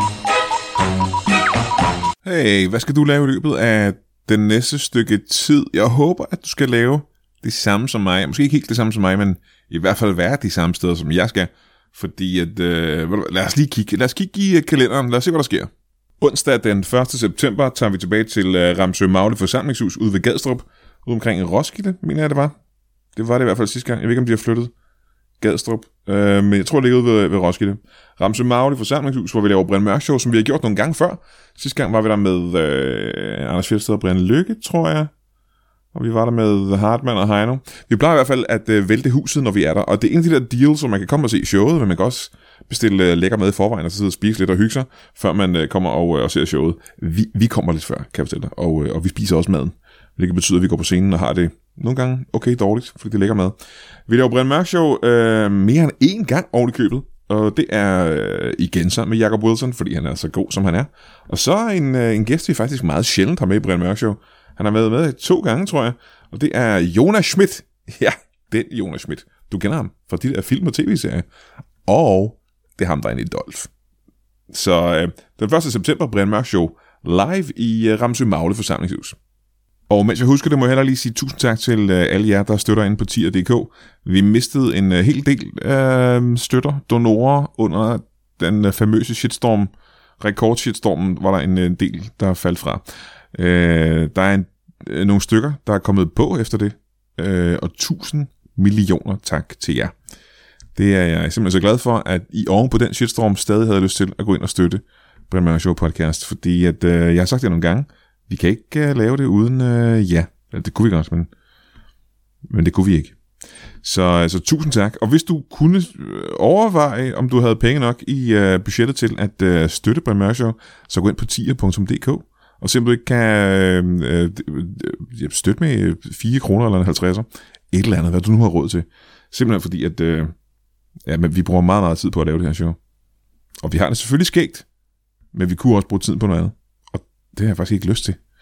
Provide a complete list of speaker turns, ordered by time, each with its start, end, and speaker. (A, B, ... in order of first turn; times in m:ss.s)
0:02.2-0:22.5 A
0:23.1-0:24.7 A
0:25.4-0:35.1 A
0:35.9-0:53.5 A
0:54.1-1:11.2 A
1:11.8-1:13.7 A
1:14.5-1:19.2 A
1:19.9-1:39.9 A
1:40.7-1:51.3 A
1:52.5-1:53.2 A
1:53.8-2:10.3 A
2:11.0-2:12.8 A
2:13.6-2:14.6 A
2:15.3-2:18.2 A